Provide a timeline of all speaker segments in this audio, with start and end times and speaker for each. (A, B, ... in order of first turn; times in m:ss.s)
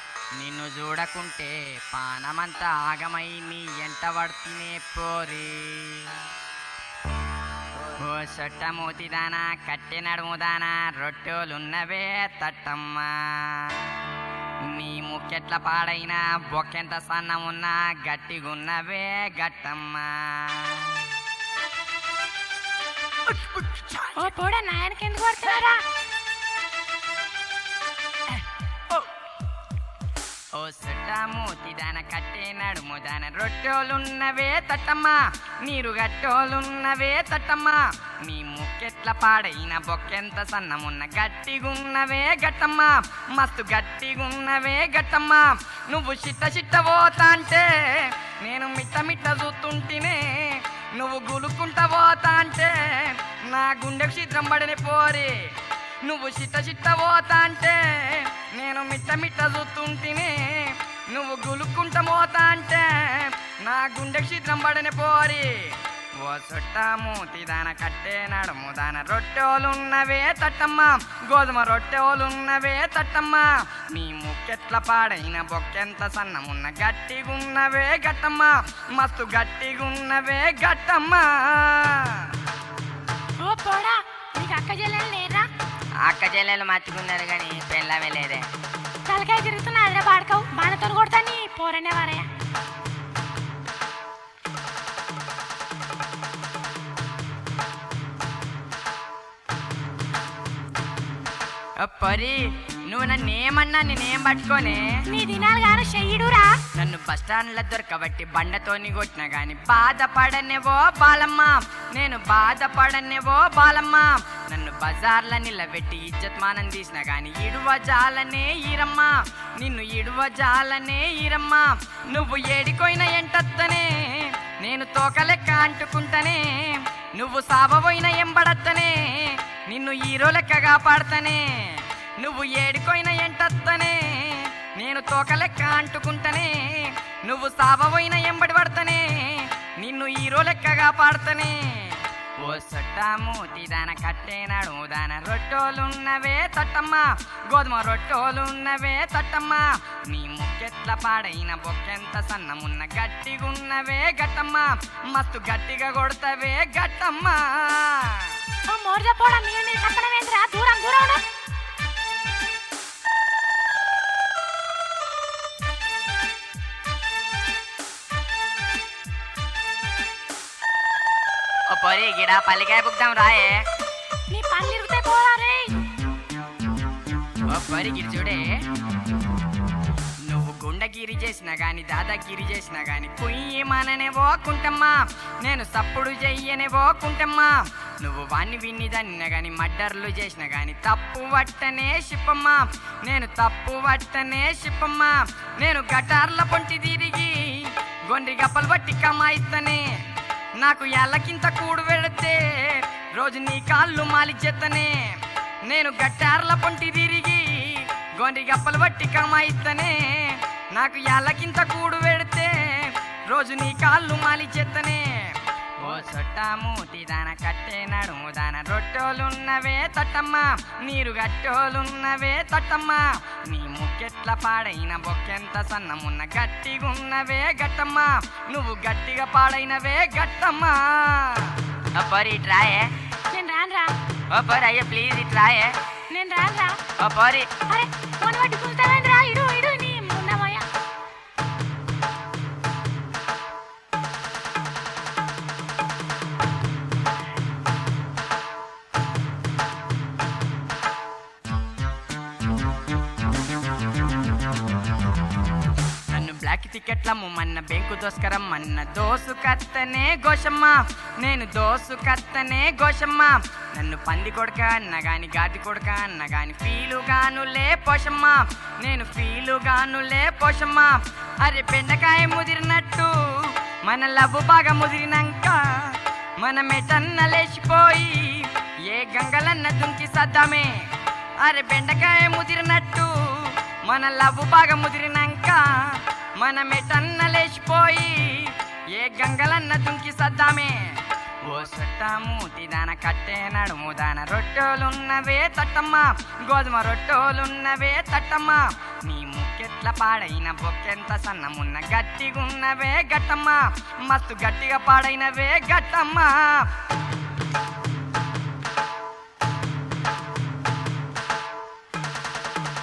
0:00.4-0:06.3 A
0:08.0-0:14.0 A
0:14.6-0:21.0 A
0:23.3-0:24.1 A
0:24.1-0:25.8 B
0:30.5-0:55.4 A
0:56.0-1:22.3 A
1:23.4-1:25.5 B
1:26.0-1:28.5 A
1:29.1-1:32.2 B
1:41.8-1:45.0 A
1:45.1-1:46.6 B
1:46.7-2:38.3 A
2:38.7-2:41.2 B
2:51.7-2:53.6 A
2:54.3-2:55.7 B
2:57.5-2:58.4 A
3:00.2-3:19.8 A
3:20.6-3:52.9 A
3:53.3-3:53.9 B
3:54.3-3:55.8 A
3:56.1-3:56.8 B
3:57.0-3:57.5 A
3:57.7-4:00.6 B
4:16.1-4:40.8 A
4:41.4-4:50.9 A
4:51.4-5:06.7 A